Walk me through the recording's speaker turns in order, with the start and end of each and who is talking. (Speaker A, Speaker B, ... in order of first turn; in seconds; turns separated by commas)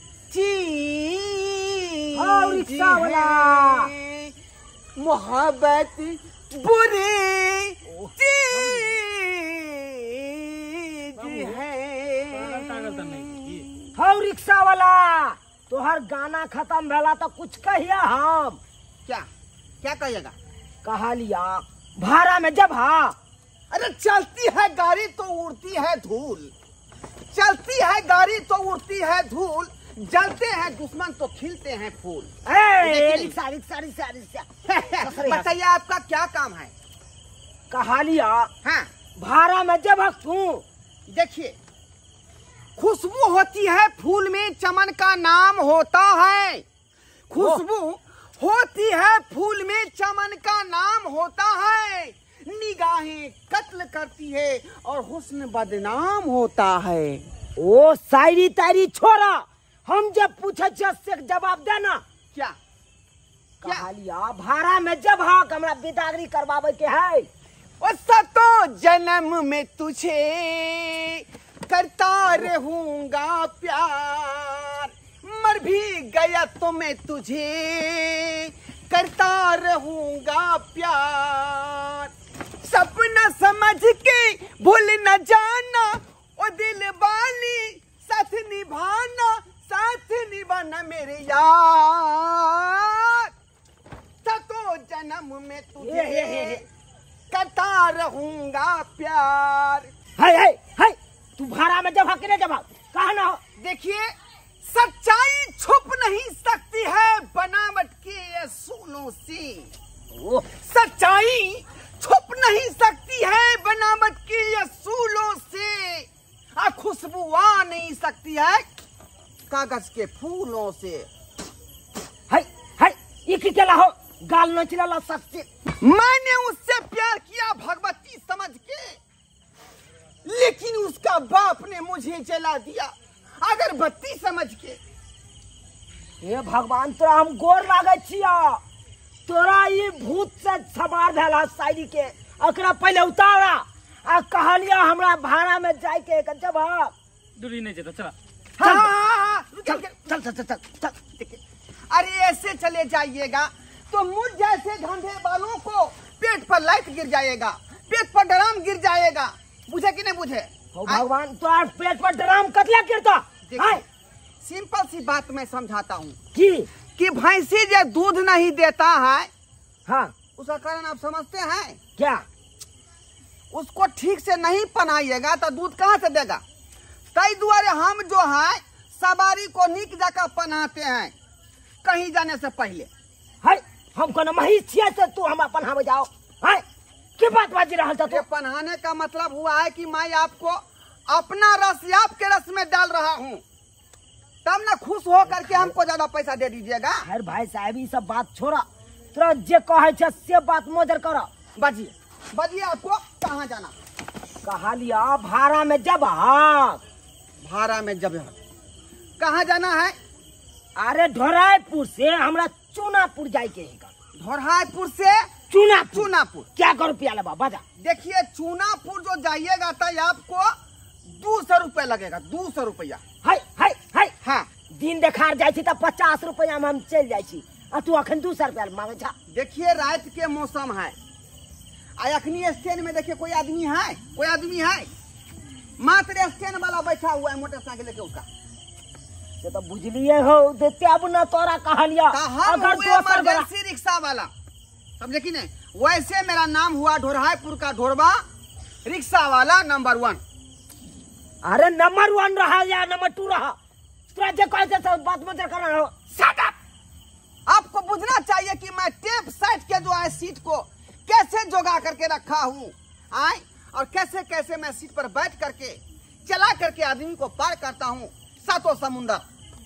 Speaker A: 0.3-4.3, Speaker B: 2.1-3.9, Speaker A: 5.0-13.9, Speaker B: 7.8-8.9, Speaker C: 11.2-11.6, Speaker C: 12.3-13.7, Speaker B: 13.9-18.6, Speaker A: 19.8-20.3, Speaker B: 20.8-23.1, Speaker A: 23.7-26.5, Speaker A: 27.3-33.3, Speaker B: 32.5-35.5, Speaker A: 34.7-36.7, Speaker B: 37.7-38.5, Speaker A: 38.6-38.9, Speaker B: 39.2-40.6, Speaker A: 41.1-41.5, Speaker A: 42.8-46.6, Speaker A: 47.3-57.2, Speaker B: 47.4-47.6, Speaker B: 57.6-62.0, Speaker B: 63.6-67.3, Speaker A: 67.8-82.1, Speaker A: 82.6-93.3, Speaker A: 94.2-96.6, Speaker B: 95.8-96.6, Speaker A: 97.3-99.9, Speaker B: 100.2-103.4, Speaker A: 103.6-109.7, Speaker B: 110.1-110.5, Speaker A: 110.5-118.7, Speaker A: 119.5-121.1, Speaker B: 122.3-125.5, Speaker A: 125.8-129.0, Speaker A: 130.2-134.8, Speaker B: 136.2-138.6, Speaker B: 139.2-146.9, Speaker C: 147.4-148.1, Speaker A: 148.6-149.9, Speaker B: 148.6-148.9, Speaker B: 149.6-151.0, Speaker A: 151.9-161.1, Speaker B: 160.7-163.8, Speaker A: 163.4-163.8, Speaker A: 164.4-166.2, Speaker B: 166.3-166.7, Speaker A: 166.9-169.3, Speaker B: 169.9-170.2, Speaker A: 170.3-171.8, Speaker B: 172.0-172.2, Speaker A: 173.5-176.4, Speaker A: 177.1-181.1, Speaker A: 181.8-182.9, Speaker B: 183.4-186.6, Speaker B: 187.2-188.2, Speaker A: 188.1-193.4, Speaker A: 194.4-197.0, Speaker B: 195.3-195.7, Speaker B: 197.0-201.3, Speaker A: 201.6-203.7, Speaker B: 204.4-206.8, Speaker A: 207.4-208.3, Speaker A: 209.2-209.9, Speaker B: 210.8-213.9, Speaker A: 214.2-215.3, Speaker B: 215.5-217.6, Speaker A: 215.9-216.5, Speaker A: 217.8-220.5, Speaker A: 221.1-223.0, Speaker B: 223.2-224.1, Speaker A: 224.2-224.5, Speaker B: 224.7-229.1, Speaker A: 229.3-230.9, Speaker A: 232.0-234.9, Speaker A: 235.8-238.2, Speaker B: 239.4-243.5, Speaker A: 242.1-244.3, Speaker A: 245.0-248.2, Speaker A: 248.8-250.2, Speaker B: 251.4-253.5, Speaker B: 254.1-256.0, Speaker A: 256.1-256.6, Speaker A: 257.5-269.2